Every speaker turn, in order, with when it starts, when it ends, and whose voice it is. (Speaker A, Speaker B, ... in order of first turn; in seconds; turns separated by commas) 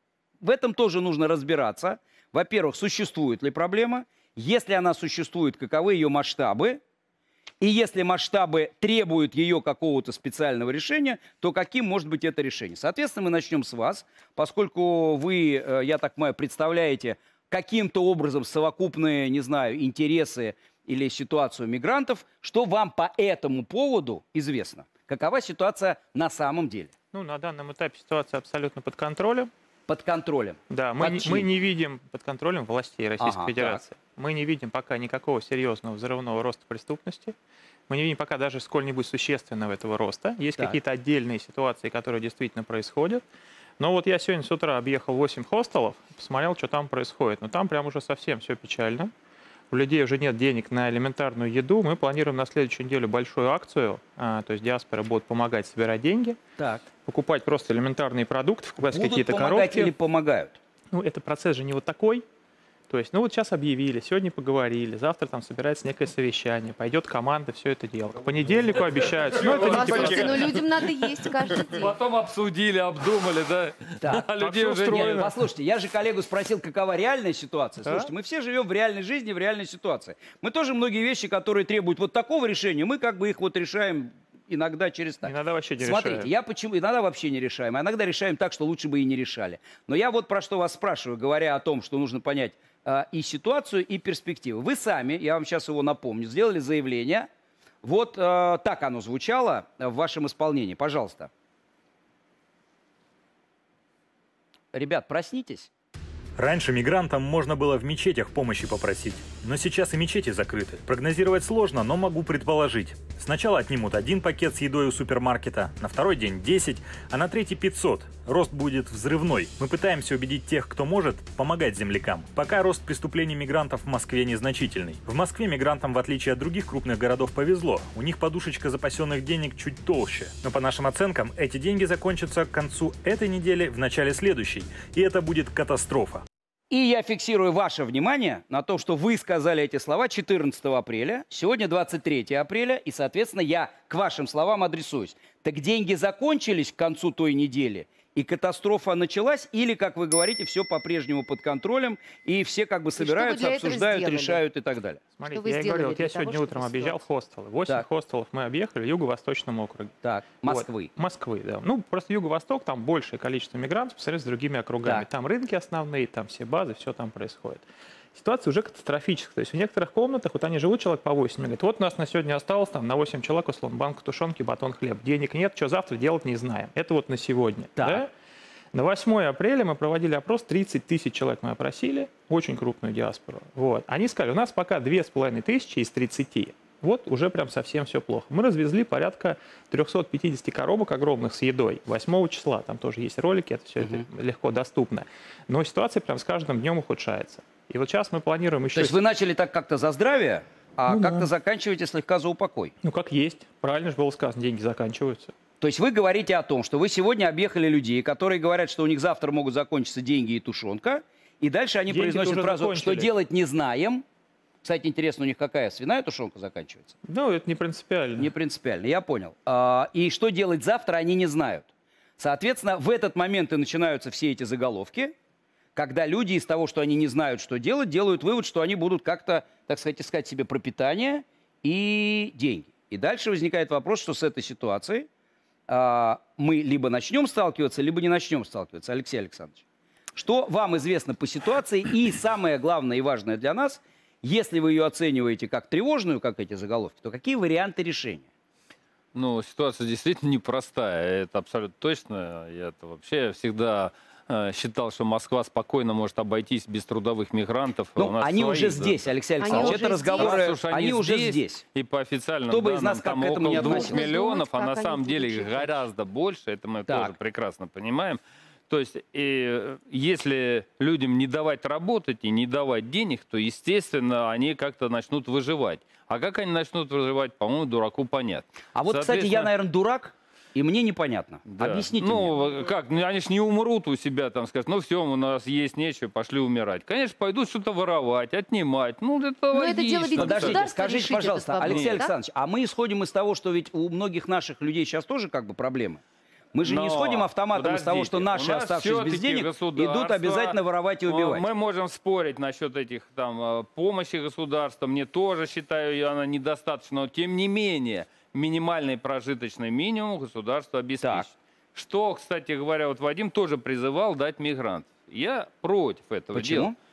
Speaker A: 0.4-6.8, Speaker A: 7.6-26.9, Speaker B: 27.1-29.5, Speaker A: 29.9-31.5, Speaker B: 30.7-37.3, Speaker A: 33.2-33.8, Speaker B: 37.9-43.2, Speaker B: 43.8-49.1, Speaker B: 49.7-56.4, Speaker A: 56.6-56.8, Speaker B: 57.0-59.9, Speaker A: 58.9-60.6, Speaker B: 60.9-62.2, Speaker B: 62.9-70.7, Speaker C: 69.3-70.3, Speaker D: 69.5-71.9, Speaker C: 71.6-75.2, Speaker A: 74.0-97.3, Speaker B: 74.4-75.3, Speaker B: 85.2-86.3, Speaker A: 97.8-101.3, Speaker A: 104.7-105.7, Speaker E: 106.4-136.2, Speaker A: 136.7-155.0, Speaker D: 153.0-154.4, Speaker B: 155.2-178.1, Speaker D: 155.3-157.0, Speaker A: 160.0-160.9, Speaker A: 177.8-178.0, Speaker B: 178.7-199.0, Speaker A: 193.8-194.1, Speaker A: 198.7-202.7, Speaker B: 200.9-201.3, Speaker B: 202.8-205.3, Speaker A: 205.6-214.0, Speaker B: 211.9-213.1, Speaker A: 214.6-216.9, Speaker B: 217.1-218.3, Speaker A: 218.2-221.7, Speaker A: 222.2-225.1, Speaker A: 225.8-235.1, Speaker A: 235.7-239.6, Speaker A: 240.2-248.3, Speaker C: 249.1-279.5, Speaker A: 258.0-261.6, Speaker D: 259.4-260.4, Speaker A: 262.5-264.0, Speaker D: 263.5-265.8, Speaker A: 266.9-267.1, Speaker A: 278.8-282.3, Speaker C: 281.5-290.7, Speaker D: 289.5-292.1, Speaker A: 290.1-296.0, Speaker C: 291.6-292.0, Speaker A: 296.5-301.4, Speaker C: 296.6-300.6, Speaker C: 301.1-316.7, Speaker A: 316.3-316.8